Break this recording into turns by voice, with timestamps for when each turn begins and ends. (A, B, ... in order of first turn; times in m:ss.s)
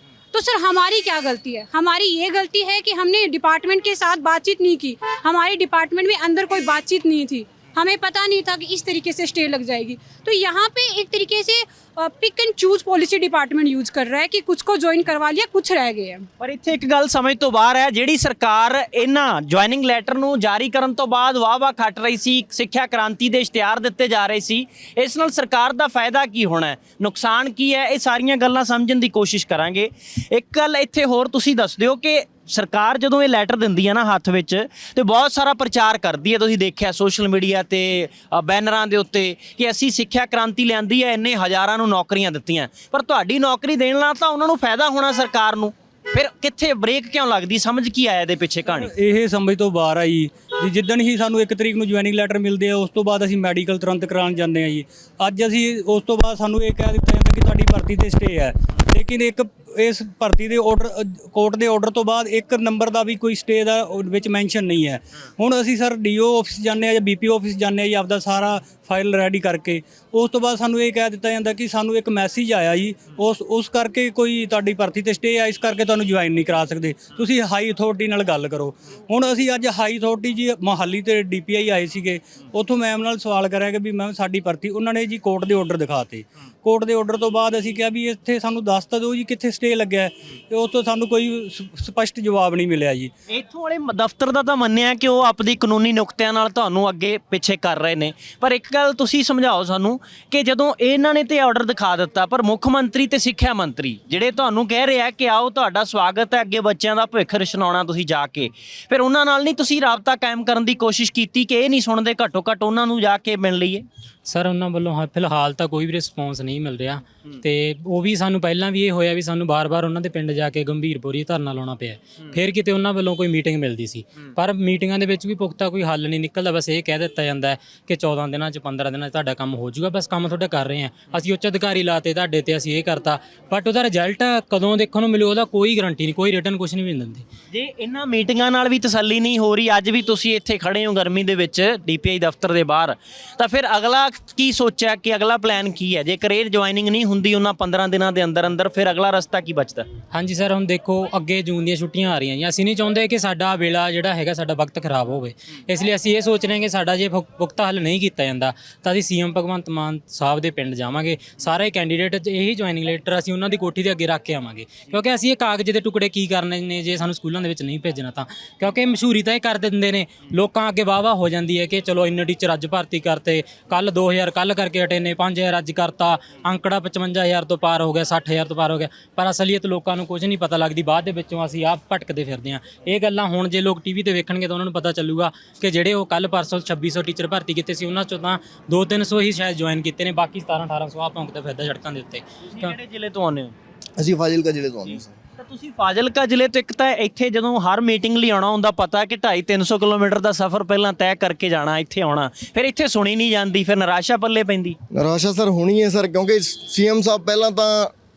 0:00.3-0:16.3 A
0:16.4-0:48.9 B
0:48.6-1:33.1 C
1:33.3-1:53.8 B
1:54.3-2:17.2 D
2:17.5-2:29.9 B
2:30.1-3:12.8 D
3:12.4-3:13.6 B
3:14.0-3:15.2 E
3:14.9-3:24.8 B
3:24.9-3:27.9 E